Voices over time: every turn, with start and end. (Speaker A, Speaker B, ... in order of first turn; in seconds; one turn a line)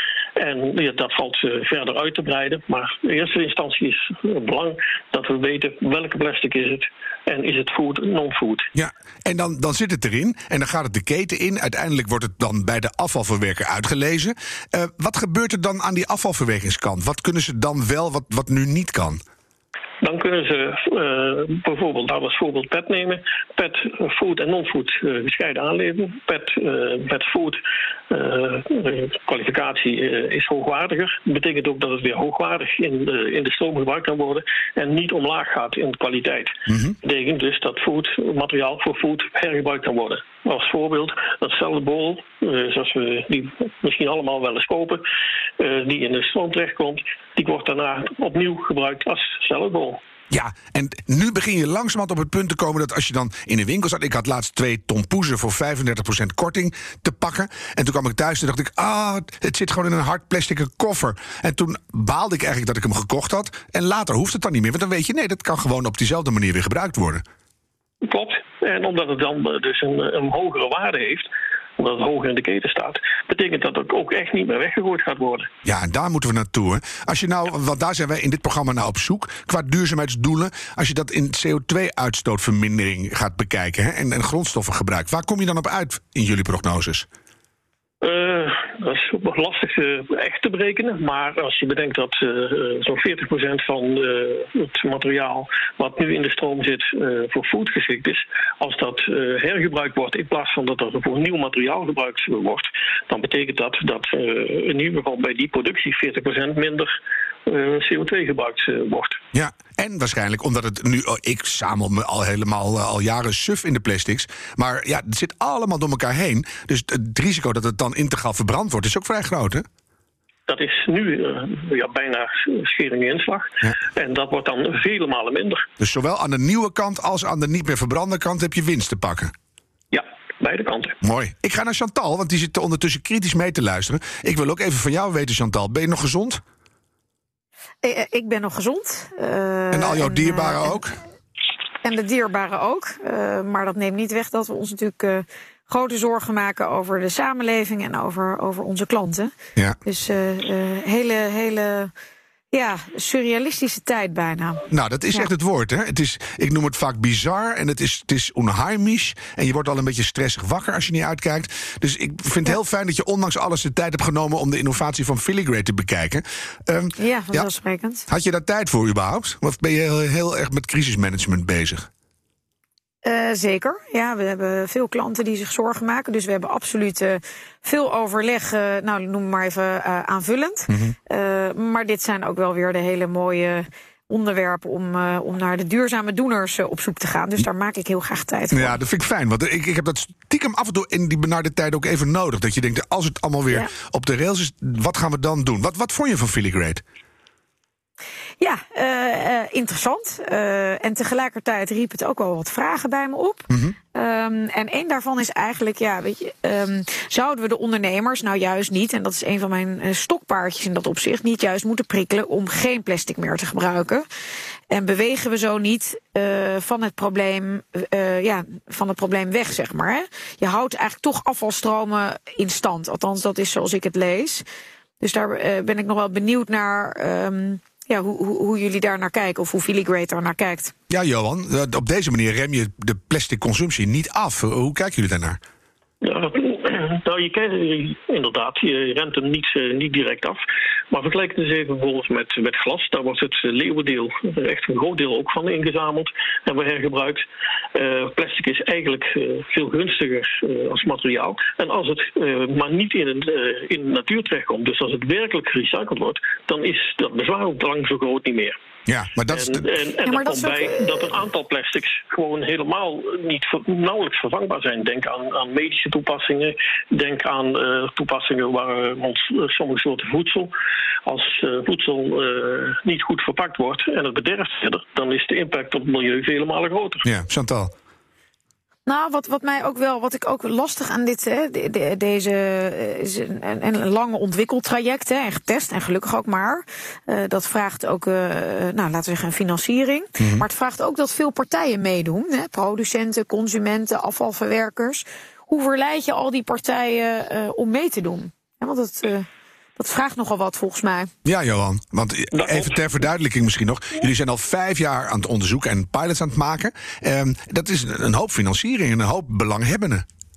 Speaker A: 0.3-8.7
Speaker B: 8.7-19.2
Speaker A: 20.0-45.0
Speaker B: 36.7-36.9
Speaker A: 45.6-50.0
Speaker B: 50.3-67.2
Speaker A: 68.0-75.5
Speaker B: 75.6-87.1
Speaker A: 88.0-106.9
Speaker A: 107.5-109.2
Speaker B: 109.3-119.7
Speaker A: 120.5-125.7
Speaker B: 125.8-129.3
Speaker A: 129.9-131.0
Speaker B: 131.0-136.4
Speaker C: 137.8-140.8
Speaker B: 139.7-141.0
Speaker C: 141.8-149.3
Speaker C: 149.8-151.9
Speaker C: 152.5-155.3
Speaker B: 154.7-167.5
Speaker C: 167.0-168.1
Speaker B: 168.1-171.9
Speaker C: 173.0-188.8
Speaker B: 188.5-196.8
Speaker C: 198.4-214.0
Speaker C: 214.7-224.4
Speaker C: 225.0-230.7
Speaker B: 230.9-235.4
Speaker A: 236.0-258.6
Speaker B: 258.9-259.7
Speaker A: 259.3-270.5
Speaker C: 260.0-261.1
Speaker A: 271.0-277.1
Speaker B: 277.0-277.7
Speaker C: 278.9-301.1
Speaker B: 290.2-290.4
Speaker B: 301.2-310.0
Speaker A: 302.3-302.8